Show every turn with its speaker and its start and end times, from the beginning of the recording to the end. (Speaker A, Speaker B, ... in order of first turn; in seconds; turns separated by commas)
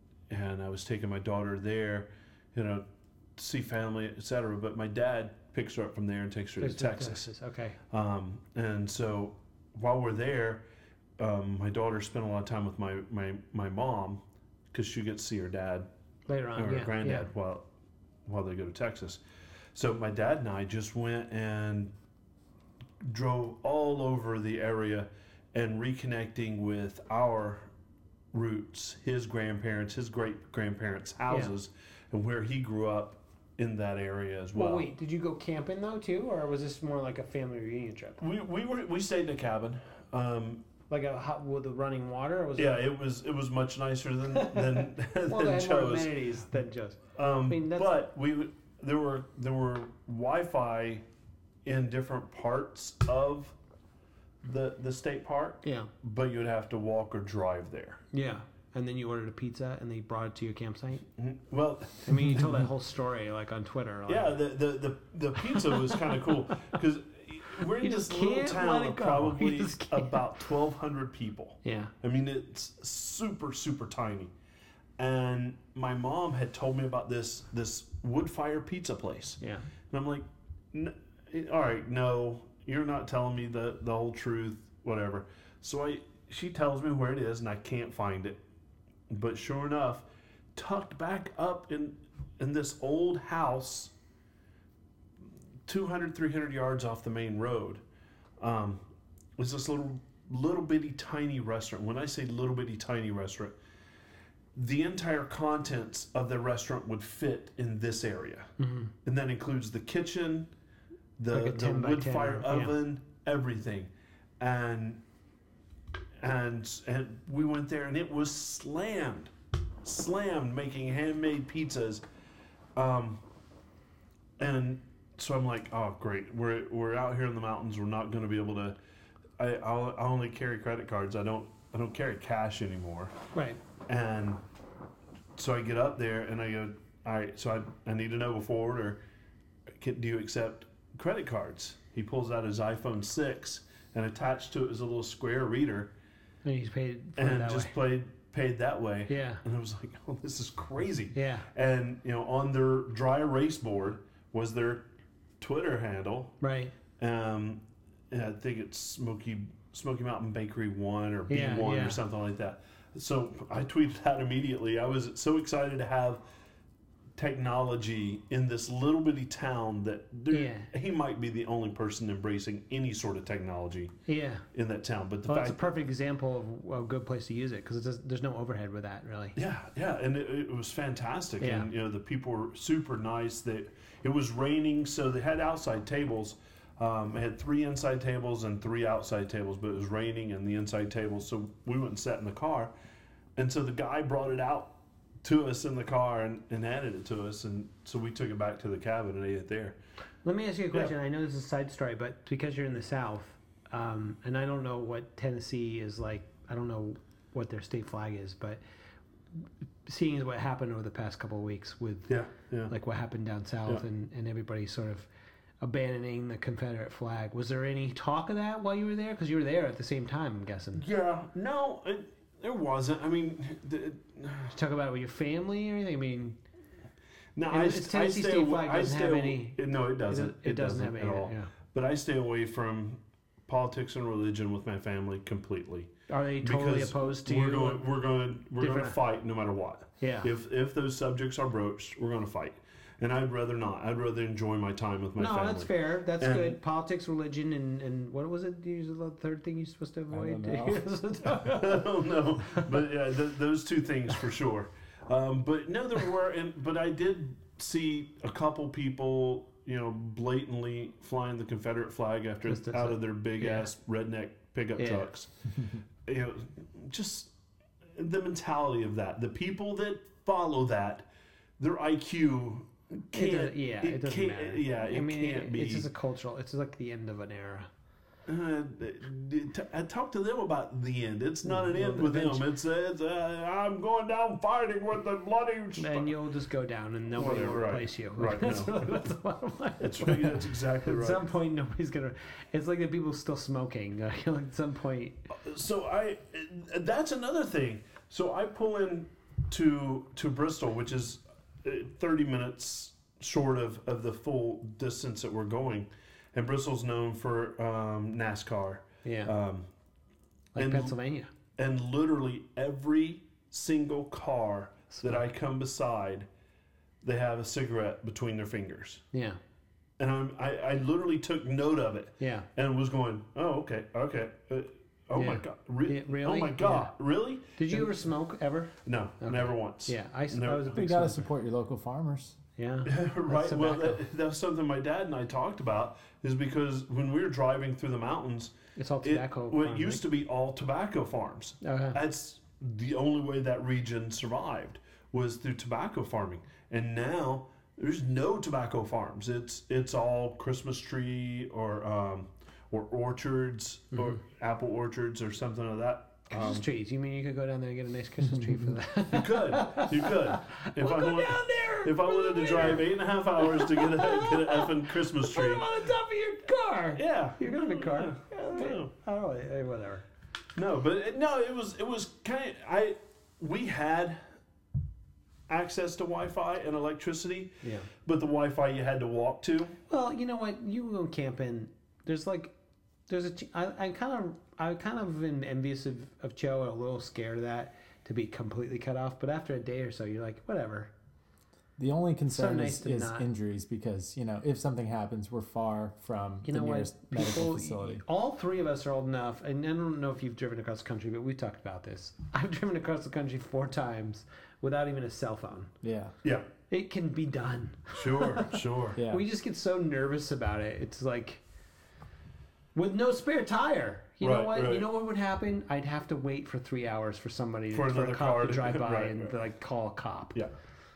Speaker A: 0.3-2.8, Speaker A: 3.4-7.3, Speaker B: 6.6-7.8, Speaker A: 7.9-10.6, Speaker A: 11.2-14.2, Speaker A: 14.7-15.9, Speaker B: 16.3-17.3, Speaker A: 16.6-17.6, Speaker A: 18.2-19.2, Speaker A: 19.8-21.9, Speaker A: 23.0-27.7, Speaker A: 28.3-34.9, Speaker B: 31.3-31.5, Speaker B: 34.5-38.2, Speaker A: 38.2-40.6, Speaker B: 40.9-42.8, Speaker A: 42.6-46.1, Speaker B: 44.3-48.0, Speaker A: 47.1-51.0, Speaker A: 51.6-53.5, Speaker A: 54.4-58.0, Speaker B: 55.6-55.9, Speaker B: 58.1-61.0, Speaker A: 61.2-62.6, Speaker B: 62.0-64.4, Speaker A: 64.1-74.3, Speaker B: 65.4-66.0, Speaker B: 67.8-70.2, Speaker B: 71.6-71.9, Speaker A: 75.0-88.4, Speaker B: 79.4-79.7, Speaker A: 89.1-93.9, Speaker A: 95.7-97.8, Speaker A: 98.4-98.8, Speaker A: 99.4-103.5, Speaker A: 104.5-108.5, Speaker B: 108.6-108.9, Speaker A: 109.0-110.5, Speaker A: 111.2-115.0, Speaker B: 111.3-112.8, Speaker A: 116.2-119.3, Speaker A: 119.8-122.0, Speaker A: 122.8-123.2, Speaker A: 124.4-128.8, Speaker A: 129.4-133.1, Speaker B: 133.3-133.6, Speaker A: 133.9-134.4, Speaker A: 135.4-139.0, Speaker A: 139.8-145.9, Speaker B: 146.4-147.7, Speaker A: 147.2-154.9, Speaker B: 149.1-149.4, Speaker B: 151.1-151.5, Speaker A: 155.4-156.4, Speaker B: 156.4-156.7, Speaker A: 157.0-166.2, Speaker B: 161.3-162.0, Speaker A: 167.2-173.9, Speaker B: 170.3-170.7, Speaker B: 174.1-174.4, Speaker A: 174.5-175.7, Speaker B: 175.2-179.4, Speaker A: 179.4-192.7, Speaker B: 181.4-181.7, Speaker A: 193.4-199.8, Speaker B: 200.2-208.6, Speaker B: 209.9-212.1, Speaker A: 212.1-212.7, Speaker B: 212.7-215.1, Speaker B: 215.6-220.8, Speaker A: 220.8-224.5, Speaker B: 224.5-226.4, Speaker A: 227.4-246.6, Speaker B: 227.5-231.5, Speaker B: 236.1-237.9, Speaker B: 238.6-239.0, Speaker B: 240.0-240.3, Speaker B: 245.2-251.8, Speaker C: 250.1-250.8, Speaker A: 251.3-265.3, Speaker B: 252.4-252.8, Speaker B: 262.5-263.7, Speaker B: 264.8-265.1, Speaker A: 266.0-267.3, Speaker A: 267.9-271.1, Speaker A: 271.6-275.9, Speaker B: 273.1-277.7, Speaker A: 278.3-286.1, Speaker B: 281.4-282.4, Speaker B: 285.8-295.2, Speaker A: 287.1-288.9, Speaker A: 289.8-291.2, Speaker A: 295.4-309.7, Speaker B: 309.0-309.3, Speaker B: 310.5-311.3, Speaker A: 310.6-310.9, Speaker A: 311.6-316.3, Speaker B: 314.9-315.2, Speaker A: 317.0-319.0, Speaker B: 319.1-319.4, Speaker A: 320.0-328.0, Speaker B: 322.2-322.5, Speaker B: 325.1-326.9, Speaker B: 327.6-331.2, Speaker A: 328.9-330.8, Speaker C: 330.7-332.4, Speaker B: 332.6-334.0, Speaker A: 332.9-356.6, Speaker B: 338.8-340.0, Speaker B: 341.6-342.0, Speaker B: 356.3-370.0, Speaker A: 359.1-365.7, Speaker A: 367.0-368.9, Speaker A: 370.6-374.2, Speaker A: 375.5-379.8, Speaker B: 377.6-377.9, Speaker B: 379.9-382.5, Speaker B: 383.1-390.9, Speaker C: 391.8-398.0, Speaker B: 392.3-393.3, Speaker B: 396.4-405.7, Speaker C: 405.8-406.1, Speaker B: 406.7-411.4, Speaker A: 407.9-409.0, Speaker C: 408.9-409.2, Speaker B: 412.8-420.4, Speaker A: 414.2-414.9, Speaker A: 417.7-419.3